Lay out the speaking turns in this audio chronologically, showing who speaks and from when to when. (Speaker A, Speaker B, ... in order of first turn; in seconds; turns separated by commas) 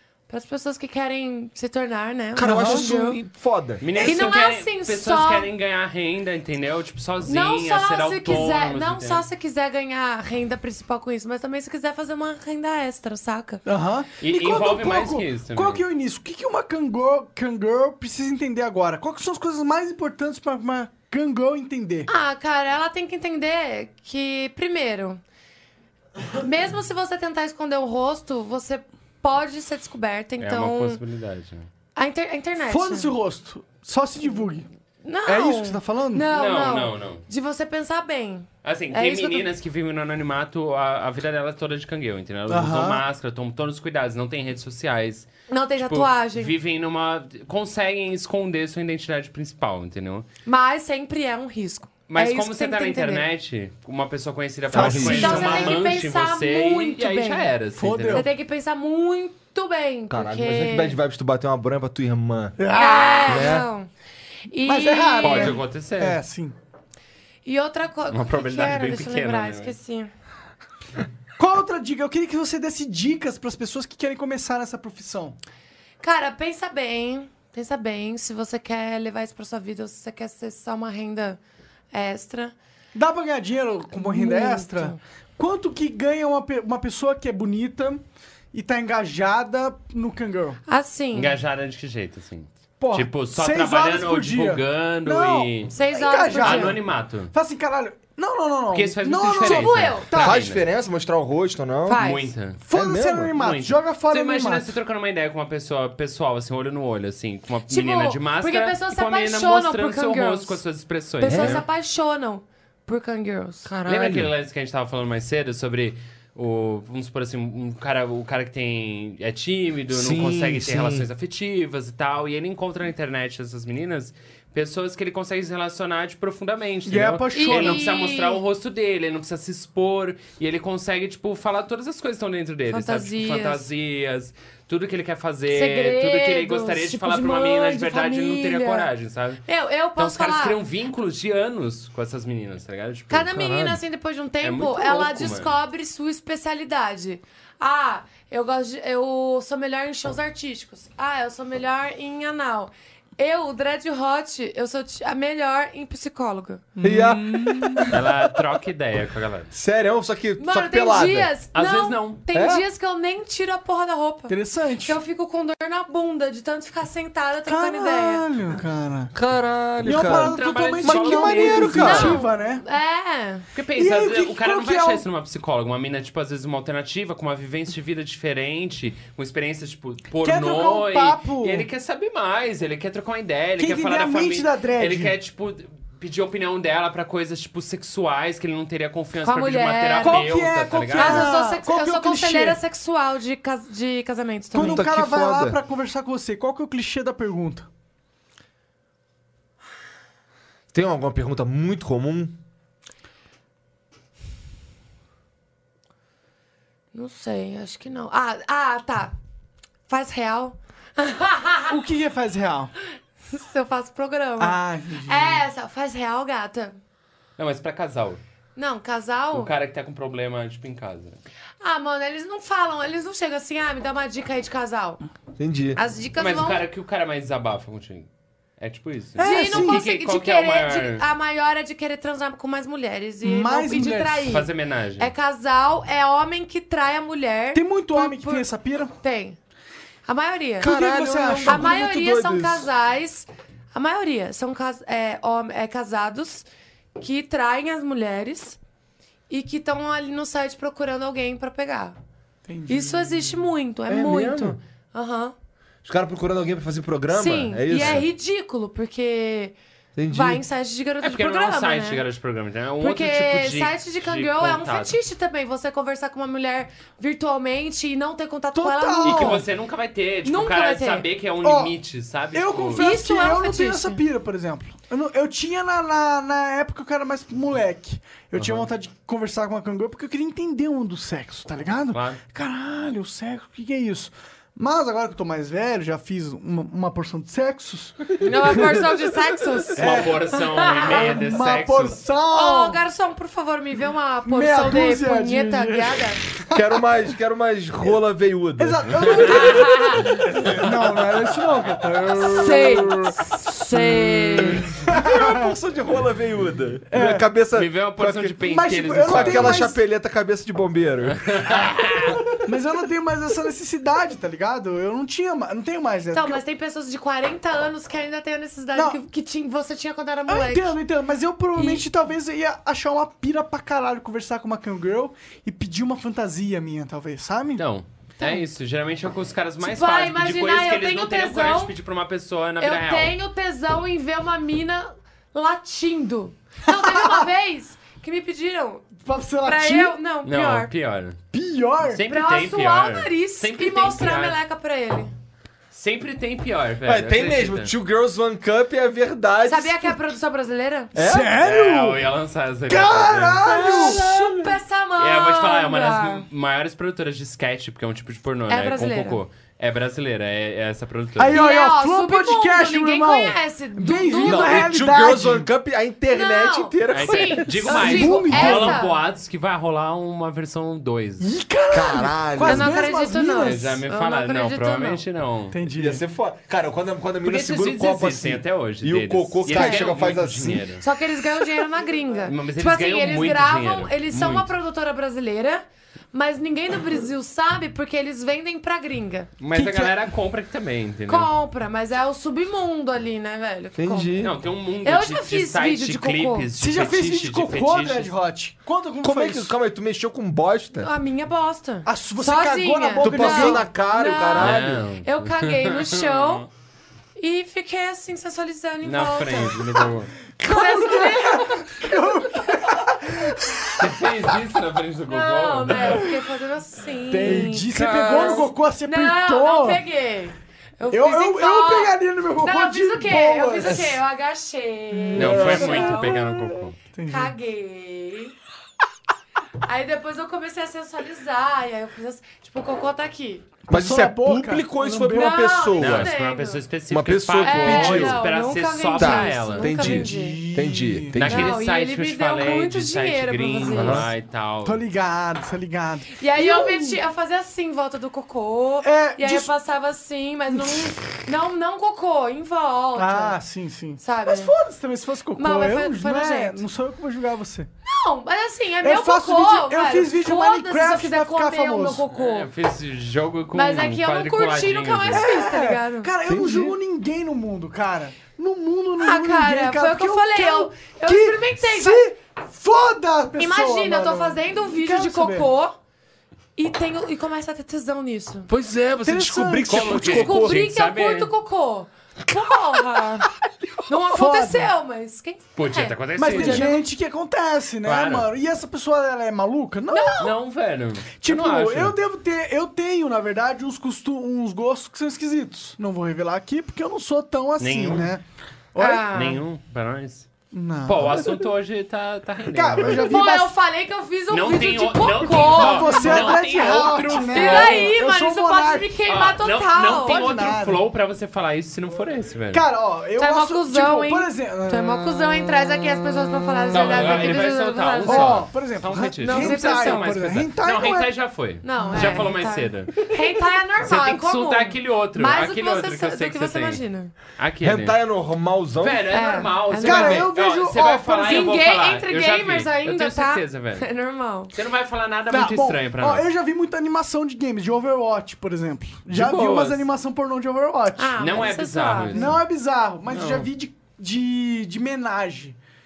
Speaker A: 0.3-3.2, Speaker B: 2.3-3.9, Speaker C: 2.4-2.9, Speaker D: 3.8-9.2, Speaker A: 4.0-5.5, Speaker A: 7.2-13.6, Speaker C: 13.7-22.1, Speaker D: 14.2-15.8, Speaker A: 22.1-25.2, Speaker A: 26.4-31.0, Speaker D: 30.4-31.7, Speaker A: 31.9-33.1, Speaker C: 32.6-34.7, Speaker A: 35.0-39.5, Speaker C: 35.2-36.3, Speaker D: 36.3-37.2, Speaker D: 38.6-50.2, Speaker C: 42.5-43.0, Speaker A: 45.5-46.5, Speaker A: 50.5-53.2, Speaker D: 52.1-58.3, Speaker C: 54.7-55.8, Speaker B: 54.7-55.6, Speaker A: 54.9-57.5, Speaker C: 57.8-58.3, Speaker A: 58.1-61.0, Speaker B: 60.1-62.6, Speaker C: 62.6-63.5, Speaker A: 62.7-63.9, Speaker B: 63.2-63.7, Speaker A: 64.5-65.6, Speaker C: 64.7-66.5, Speaker D: 65.2-66.2, Speaker A: 67.4-70.1, Speaker D: 68.1-69.8, Speaker C: 71.4-75.4, Speaker A: 76.0-81.4, Speaker A: 81.9-82.5, Speaker C: 82.9-90.6, Speaker A: 83.9-85.0, Speaker A: 90.7-91.3, Speaker D: 91.1-95.7, Speaker C: 92.8-100.4, Speaker A: 95.7-96.8, Speaker D: 96.3-97.3, Speaker D: 98.7-100.6, Speaker A: 99.4-100.1, Speaker B: 100.1-102.1, Speaker A: 101.8-102.3, Speaker D: 102.0-102.6, Speaker C: 102.6-104.7, Speaker B: 102.7-103.3, Speaker D: 103.3-111.6, Speaker A: 107.7-110.6, Speaker A: 111.2-113.7, Speaker B: 111.2-111.6, Speaker B: 113.6-114.3, Speaker D: 113.8-139.4, Speaker B: 119.9-121.1, Speaker C: 126.8-127.8, Speaker A: 127.3-128.4, Speaker A: 132.7-133.7, Speaker A: 135.5-138.9, Speaker A: 139.4-140.6, Speaker D: 140.0-143.4, Speaker A: 143.1-156.6, Speaker B: 143.3-143.8, Speaker D: 144.4-145.6, Speaker C: 156.8-158.0, Speaker B: 156.8-158.1, Speaker D: 157.9-159.5, Speaker B: 159.5-161.3, Speaker A: 160.4-168.2, Speaker D: 161.5-162.2, Speaker B: 162.3-162.6, Speaker C: 164.3-165.0, Speaker C: 167.4-169.1, Speaker B: 169.1-172.2, Speaker C: 169.8-172.6, Speaker D: 169.8-172.2, Speaker A: 171.7-173.4, Speaker D: 173.5-191.3, Speaker C: 173.8-175.0, Speaker C: 180.2-181.7, Speaker C: 183.6-185.1, Speaker A: 189.2-190.3, Speaker C: 190.0-192.6, Speaker A: 190.9-194.9, Speaker C: 194.5-197.7, Speaker B: 194.5-195.6, Speaker B: 200.7-202.3, Speaker A: 206.9-209.1, Speaker A: 209.9-211.8, Speaker C: 211.7-212.7, Speaker A: 213.3-216.8, Speaker C: 214.4-215.4, Speaker D: 217.4-218.2, Speaker A: 218.6-219.5, Speaker D: 219.3-221.2, Speaker A: 221.6-225.0, Speaker B: 225.4-225.8, Speaker A: 225.8-226.6, Speaker D: 226.2-231.0, Speaker A: 229.2-239.4, Speaker C: 229.2-229.8, Speaker C: 233.2-234.3, Speaker D: 234.3-235.1, Speaker C: 237.5-238.9, Speaker A: 240.1-240.8, Speaker C: 240.6-241.8, Speaker B: 240.6-242.7, Speaker A: 241.4-246.4, Speaker A: 246.9-248.6, Speaker A: 249.3-251.9, Speaker C: 252.4-253.4, Speaker A: 252.7-255.3, Speaker B: 253.9-254.6, Speaker B: 255.8-258.1, Speaker A: 257.1-259.5, Speaker D: 257.7-258.1, Speaker B: 259.9-260.4, Speaker A: 260.1-262.0, Speaker D: 261.0-264.9, Speaker A: 262.8-269.4, Speaker C: 268.5-269.5, Speaker D: 269.0-272.8, Speaker A: 270.2-271.1, Speaker C: 271.4-271.7, Speaker C: 272.3-288.8, Speaker A: 272.8-274.0, Speaker D: 278.3-278.7, Speaker D: 281.9-282.2, Speaker A: 288.2-290.0, Speaker D: 289.8-292.0, Speaker C: 289.8-290.2, Speaker A: 290.6-291.2, Speaker C: 290.8-292.8, Speaker A: 292.3-296.2, Speaker C: 294.2-296.8, Speaker B: 296.5-299.5, Speaker C: 298.6-305.5, Speaker A: 299.3-300.1, Speaker A: 302.3-304.7, Speaker B: 304.7-308.4, Speaker C: 306.9-307.3, Speaker D: 307.5-309.7, Speaker C: 308.4-309.8, Speaker B: 309.0-311.6, Speaker D: 311.0-312.2, Speaker C: 312.4-316.4, Speaker A: 316.1-320.8, Speaker C: 318.7-319.0, Speaker C: 320.3-327.6, Speaker A: 321.5-321.8, Speaker D: 327.6-333.1, Speaker A: 329.6-331.7, Speaker A: 332.6-338.9, Speaker C: 336.7-337.2, Speaker C: 339.0-340.0, Speaker A: 339.4-340.7, Speaker D: 340.2-341.2, Speaker C: 341.3-342.0, Speaker D: 341.8-344.4, Speaker A: 342.1-345.1, Speaker D: 345.7-347.7, Speaker B: 346.8-350.0, Speaker A: 349.4-350.9, Speaker B: 350.9-351.4, Speaker C: 351.0-352.0, Speaker D: 351.4-354.0, Speaker C: 352.7-354.0, Speaker A: 353.4-356.3, Speaker B: 353.6-354.5, Speaker D: 355.0-361.4, Speaker A: 358.5-359.2, Speaker C: 361.2-365.5, Speaker A: 361.3-364.8, Speaker B: 364.2-367.7, Speaker A: 366.1-369.0, Speaker D: 366.9-371.3, Speaker C: 367.6-368.8, Speaker C: 371.2-373.7, Speaker B: 371.7-372.8, Speaker A: 372.4-375.0, Speaker D: 373.4-375.6, Speaker C: 375.5-376.0, Speaker B: 375.7-380.8, Speaker D: 377.2-380.8, Speaker A: 379.5-379.8, Speaker A: 380.8-389.3, Speaker D: 382.2-384.5, Speaker D: 389.4-391.3, Speaker C: 389.5-389.9, Speaker A: 391.1-394.2, Speaker B: 393.8-394.4, Speaker D: 394.2-398.1, Speaker A: 394.8-396.5, Speaker C: 396.6-399.5, Speaker B: 399.0-400.9, Speaker A: 400.8-406.5, Speaker C: 401.9-403.7, Speaker B: 403.0-404.8, Speaker D: 404.4-406.5, Speaker A: 407.2-409.8, Speaker D: 408.8-410.1, Speaker C: 410.4-414.1, Speaker A: 410.4-411.9, Speaker D: 413.8-416.1, Speaker A: 415.1-426.2, Speaker C: 415.9-416.1, Speaker C: 417.1-419.8, Speaker D: 417.7-418.5, Speaker C: 420.9-424.0, Speaker C: 424.9-427.3, Speaker D: 425.1-426.8, Speaker B: 425.2-425.6, Speaker A: 427.1-428.3, Speaker A: 429.6-433.4, Speaker B: 433.7-436.1, Speaker C: 433.7-435.5, Speaker A: 435.0-436.6, Speaker D: 435.8-439.7, Speaker B: 436.9-438.2, Speaker A: 437.4-440.4, Speaker B: 438.9-441.6, Speaker C: 439.7-441.2, Speaker D: 441.1-444.8, Speaker A: 441.2-444.1, Speaker B: 443.7-444.1, Speaker C: 444.6-447.0, Speaker A: 446.1-453.4, Speaker C: 448.8-449.5, Speaker C: 450.5-450.9, Speaker C: 452.9-457.7, Speaker A: 454.0-454.5, Speaker A: 455.4-456.6, Speaker A: 457.8-462.5, Speaker C: 458.8-462.0, Speaker D: 462.1-465.3, Speaker A: 463.5-466.1, Speaker C: 465.1-475.5, Speaker B: 466.2-466.8, Speaker A: 469.0-472.1, Speaker A: 473.4-475.8, Speaker A: 476.6-478.5, Speaker D: 478.5-481.3, Speaker B: 478.5-480.6, Speaker C: 479.0-480.3, Speaker A: 480.0-483.3, Speaker A: 483.9-486.8, Speaker C: 484.1-484.7, Speaker D: 485.6-486.8, Speaker C: 486.2-490.3, Speaker D: 487.8-488.3, Speaker A: 489.9-490.3, Speaker D: 490.2-491.9, Speaker C: 491.2-498.2, Speaker D: 497.6-498.1, Speaker C: 498.7-499.2, Speaker A: 498.8-499.4, Speaker D: 499.1-500.3, Speaker C: 500.5-501.3, Speaker D: 500.8-503.1, Speaker C: 502.5-503.5, Speaker A: 502.9-506.4, Speaker D: 504.3-507.9, Speaker C: 505.3-508.9, Speaker A: 507.3-510.3, Speaker D: 509.1-512.6, Speaker C: 510.0-510.8, Speaker C: 512.5-515.2, Speaker A: 513.2-518.4, Speaker C: 516.7-517.5, Speaker D: 516.7-523.0, Speaker C: 518.0-521.1, Speaker A: 519.2-520.1, Speaker A: 521.6-527.1, Speaker C: 521.8-522.3, Speaker D: 523.8-526.8, Speaker D: 527.4-528.0, Speaker B: 527.6-529.1, Speaker D: 528.8-533.8, Speaker A: 529.1-530.3, Speaker C: 529.8-531.6, Speaker A: 531.2-534.5, Speaker D: 534.5-536.2, Speaker C: 535.3-541.5, Speaker D: 539.1-539.9, Speaker A: 541.0-542.3, Speaker D: 541.2-542.4, Speaker C: 542.1-545.6, Speaker D: 543.1-543.5